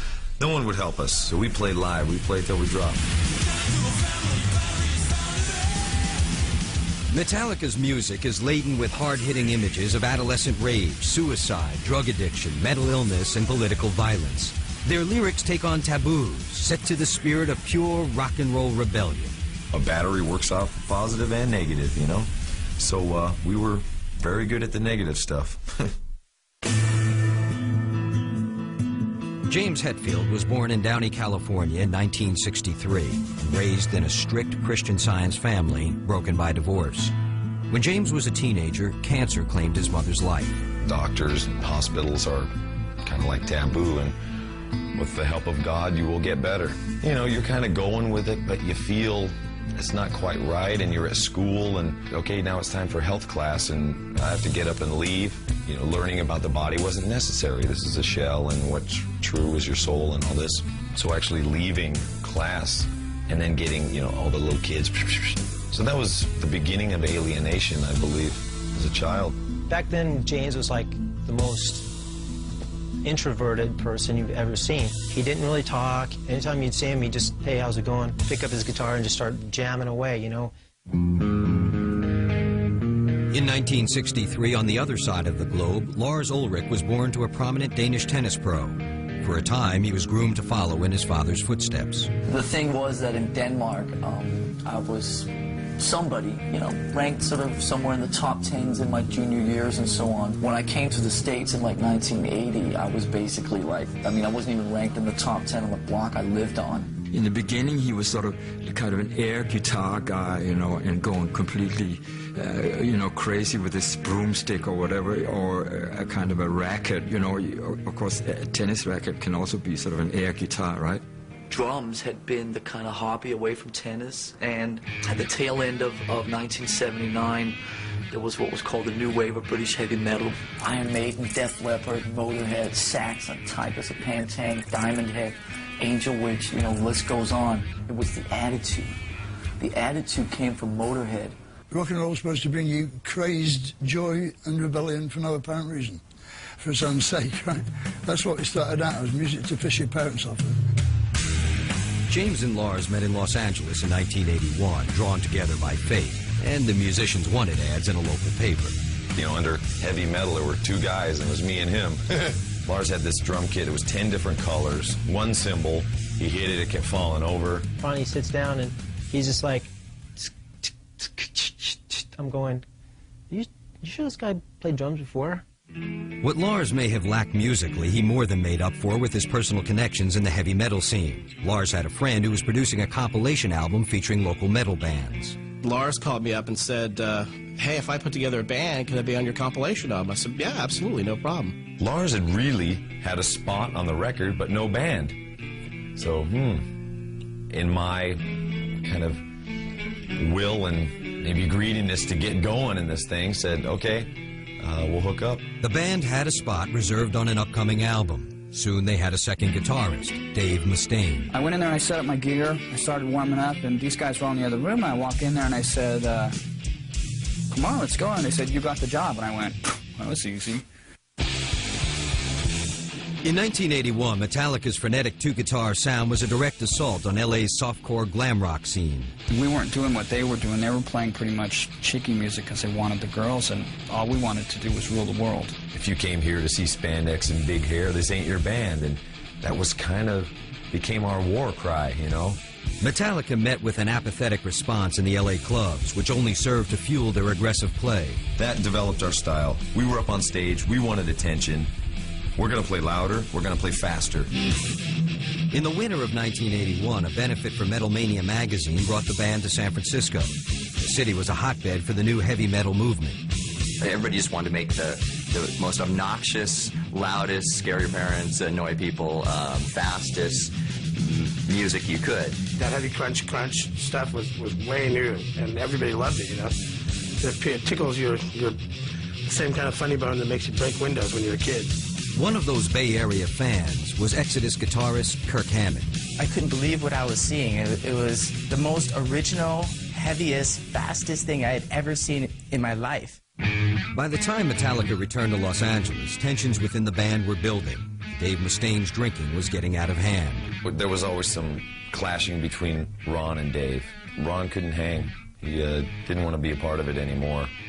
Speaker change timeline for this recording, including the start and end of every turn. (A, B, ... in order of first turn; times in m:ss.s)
0:00.4-0:03.0 A
0:07.1-0:19.3 B
0:19.7-0:25.9 A
0:29.4-0:37.1 B
0:37.7-0:40.6 B
0:40.8-0:42.5 A
0:43.0-0:44.1 A
0:44.9-1:09.4 A
1:09.7-1:11.9 C
1:13.0-1:20.5 C
1:23.3-1:32.1 B
1:32.2-1:46.9 D
1:47.1-2:01.0 E
2:10.4-2:19.0 D
2:19.6-2:21.4 D
2:21.7-2:26.0 F
2:26.6-2:30.6 F
2:32.1-2:38.8 B
2:39.1-2:47.7 A
2:47.8-2:52.6 C
2:53.3-2:55.4 C
2:56.2-3:05.4 B
3:05.6-3:11.6 G
3:11.8-3:15.2 A
3:16.0-3:16.7 A
3:17.5-3:18.2 A
3:18.8-3:19.2 A
3:20.2-3:25.4 A
3:25.6-3:31.3 B
3:31.3-3:36.3 H
3:37.5-3:40.6 H
3:43.2-3:49.1 B
3:49.3-3:55.5 H
3:55.7-4:02.4 A
4:02.8-4:08.2 B
4:08.4-4:11.7 A
4:12.4-4:14.3 A
4:15.5-4:23.2 B
4:23.8-4:32.4 I
4:32.5-4:36.5 J
4:37.2-4:38.6 J
4:39.2-4:41.7 J
4:42.1-4:45.9 B
4:46.2-4:53.2 K
4:53.9-5:00.5 B
5:00.6-5:07.5 A